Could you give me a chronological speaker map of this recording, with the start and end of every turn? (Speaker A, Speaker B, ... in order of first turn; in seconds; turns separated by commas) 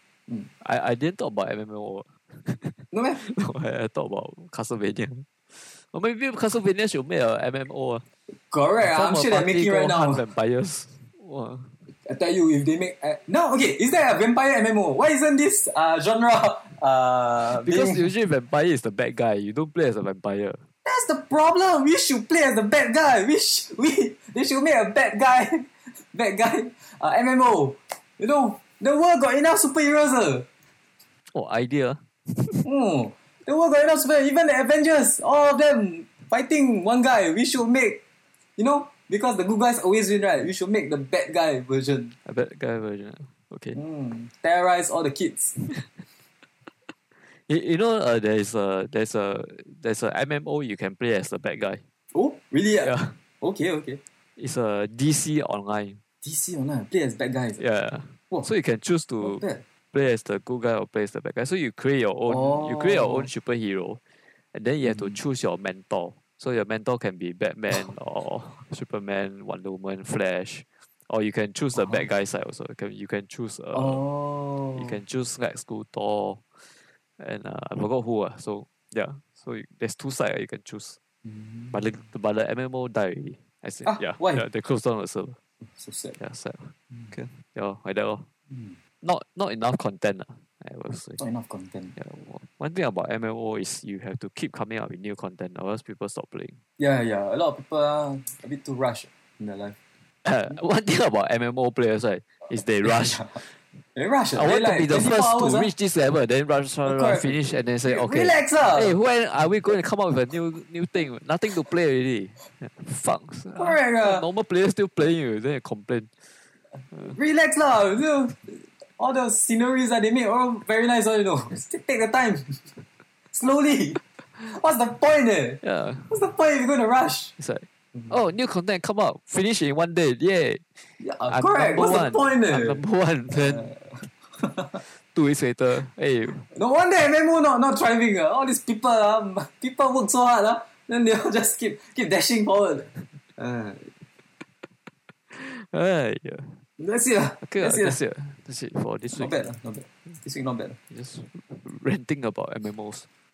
Speaker A: 0.6-8.1, Speaker B: 2.9-3.2, Speaker B: 8.3-10.3, Speaker A: 8.8-11.9, Speaker B: 11.9-18.1, Speaker A: 17.5-20.7, Speaker B: 20.9-30.5, Speaker A: 31.3-32.7, Speaker B: 32.6-38.0, Speaker B: 38.6-42.1, Speaker A: 42.2-43.8, Speaker B: 43.8-45.6, Speaker A: 47.2-51.8, Speaker B: 52.1-54.0, Speaker A: 52.8-53.2, Speaker A: 54.4-56.0, Speaker B: 56.2-57.7, Speaker A: 57.6-64.0, Speaker B: 59.2-59.6, Speaker B: 62.3-63.3, Speaker A: 64.5-74.0, Speaker B: 64.9-65.2, Speaker B: 71.8-72.1, Speaker B: 73.7-75.0, Speaker A: 74.8-81.0, Speaker B: 81.2-81.8, Speaker A: 81.7-85.4, Speaker B: 83.9-84.5, Speaker B: 85.6-86.2, Speaker A: 86.2-88.3, Speaker B: 88.5-88.8, Speaker A: 89.0-91.2, Speaker B: 91.2-92.0, Speaker A: 92.0-96.6, Speaker B: 96.8-99.8, Speaker A: 100.2-103.6, Speaker B: 102.8-103.4, Speaker B: 104.0-105.7, Speaker A: 104.3-116.4, Speaker B: 106.8-109.0, Speaker B: 113.6-114.3, Speaker B: 117.0-122.8, Speaker B: 123.3-127.3, Speaker A: 125.6-126.2, Speaker A: 127.4-133.7, Speaker B: 131.0-134.8, Speaker A: 134.8-136.5, Speaker B: 136.5-144.1, Speaker A: 145.3-146.6, Speaker B: 146.8-148.0, Speaker A: 147.4-149.3, Speaker B: 149.1-150.8, Speaker A: 150.9-153.1